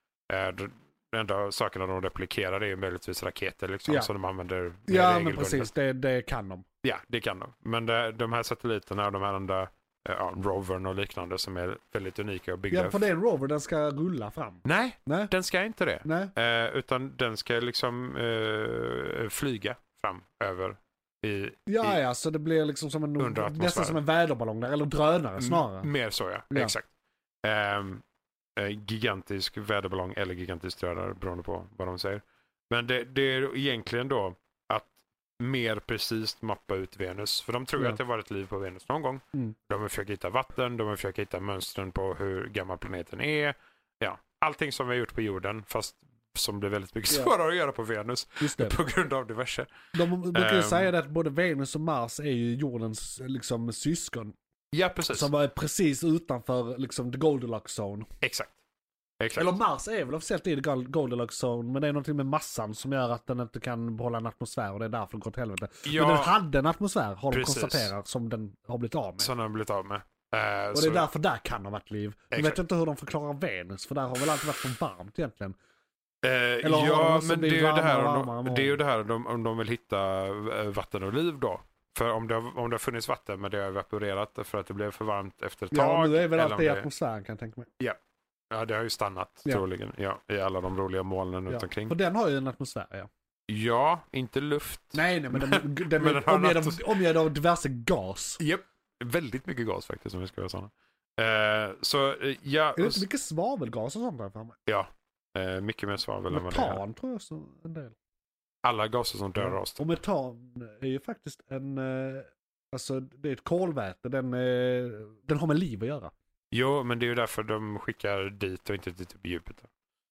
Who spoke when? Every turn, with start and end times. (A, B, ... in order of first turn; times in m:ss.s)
0:00.3-0:05.7 A
0:04.9-0:06.7 B
0:06.8-0:13.0 A
0:12.7-0:15.3 B
0:14.6-0:22.0 A
0:16.0-0:16.3 B
0:21.7-0:25.9 B
0:23.2-0:24.0 A
0:25.4-0:26.9 A
0:27.4-0:28.0 A
0:28.6-0:49.7 A
0:48.4-0:48.8 B
0:49.9-0:54.4 B
0:50.3-0:50.9 A
0:54.7-0:55.3 A
0:55.1-0:58.1 B
0:58.2-0:58.6 A
0:59.2-0:59.6 A
0:59.4-1:09.3 B
1:05.8-1:06.3 A
1:07.3-1:07.9 A
1:09.2-1:11.0 A
1:10.7-1:15.6 B
1:12.3-1:12.6 A
1:16.2-1:26.9 A
1:16.6-1:18.8 B
1:25.7-1:27.7 B
1:28.5-1:31.9 A
1:31.5-1:33.1 B
1:33.5-1:37.0 A
1:34.9-1:38.4 B
1:38.4-1:43.0 A
1:42.8-1:44.6 B
1:44.7-1:46.8 A
1:46.3-1:48.0 B
1:48.6-1:49.9 A
1:49.4-1:56.1 B
1:56.5-1:59.7 A